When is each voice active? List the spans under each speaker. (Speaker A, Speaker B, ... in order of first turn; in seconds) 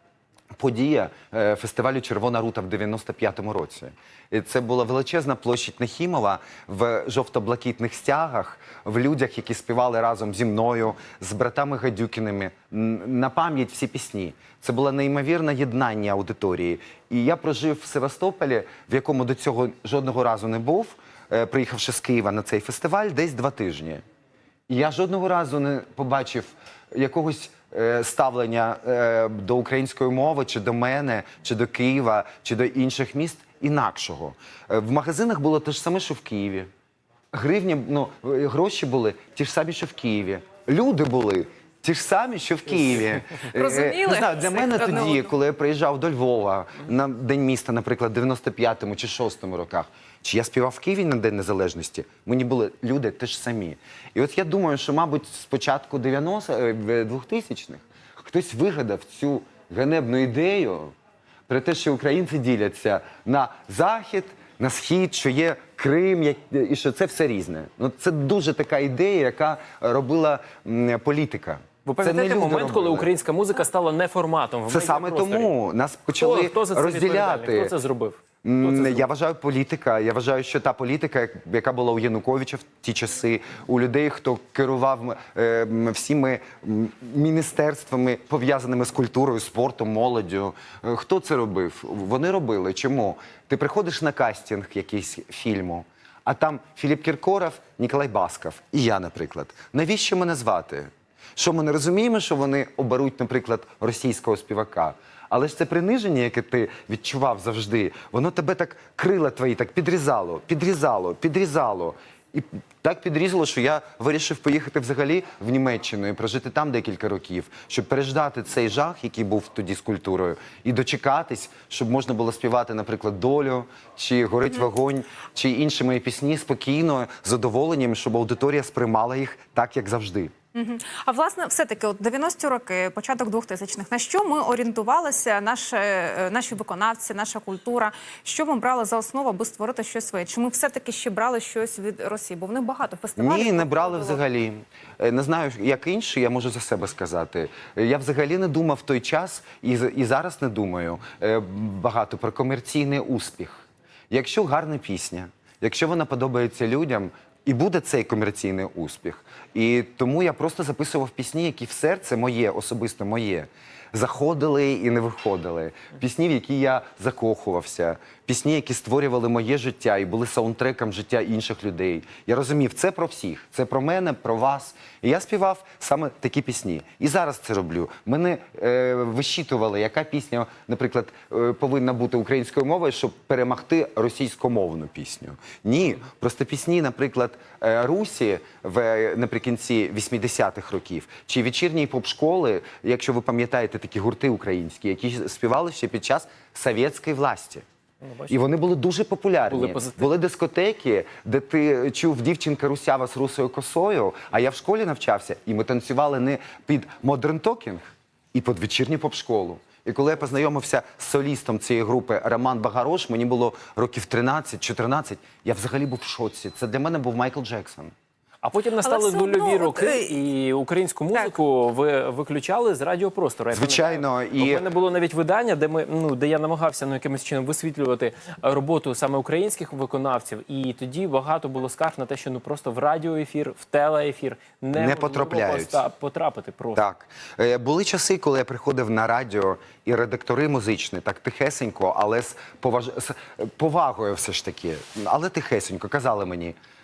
Speaker A: 0.6-24.0, 24.7-36.7, 37.3-60.9, 61.5-73.1, 74.7-77.7, 78.5-130.3, 143.2-197.6, 198.3-217.9, 223.5-224.7, 234.8-235.8, 236.8-246.6
Speaker B: 43.5-45.3, 130.6-144.2, 218.8-220.2
Speaker C: 71.9-75.5, 76.1-79.0, 198.0-198.4, 199.5-200.1, 218.4-236.8